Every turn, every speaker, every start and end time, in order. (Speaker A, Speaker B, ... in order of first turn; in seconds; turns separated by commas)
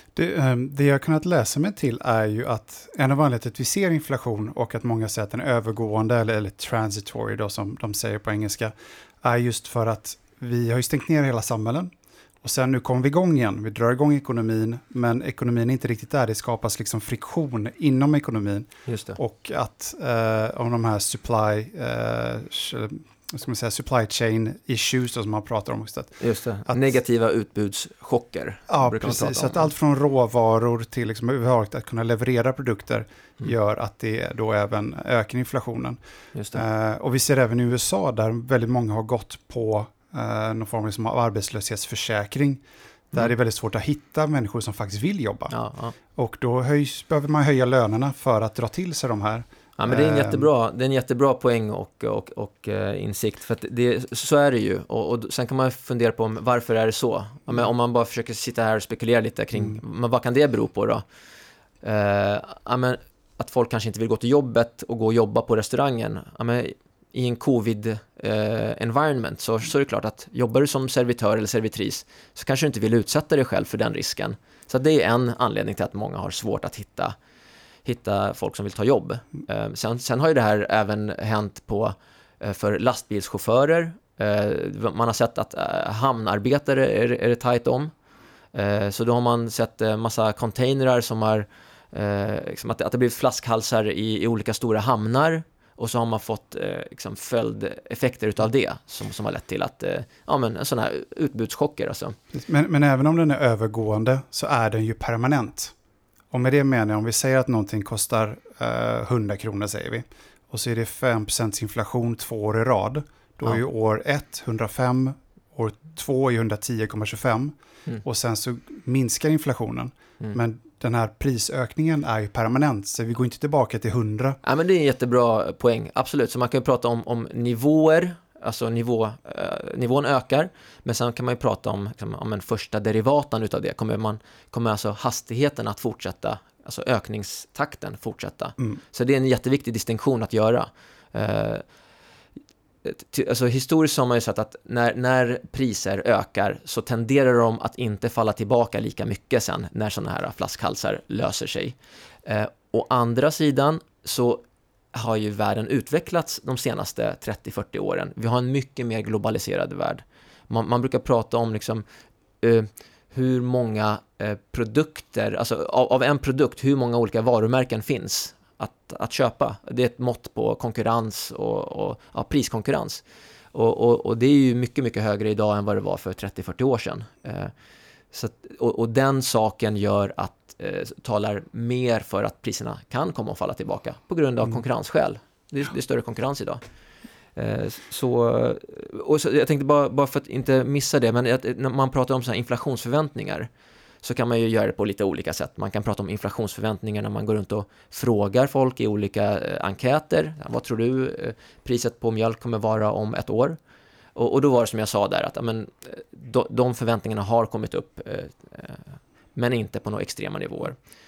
Speaker A: 0.1-26.8, Speaker B: 18.9-19.2, Speaker B: 26.2-29.7, Speaker A: 28.7-36.0, Speaker B: 36.3-36.6, Speaker A: 36.5-45.5, Speaker B: 45.5-46.0, Speaker A: 46.1-50.5, Speaker B: 49.8-61.0, Speaker B: 61.8-77.2, Speaker B: 77.8-87.9, Speaker B: 88.5-102.2, Speaker A: 102.3-105.7, Speaker A: 106.3-124.4, Speaker B: 124.4-141.7, Speaker B: 142.8-161.8, Speaker B: 162.4-177.5, Speaker B: 178.1-186.6, Speaker B: 187.3-193.5, Speaker B: 194.0-203.6, Speaker B: 204.2-210.8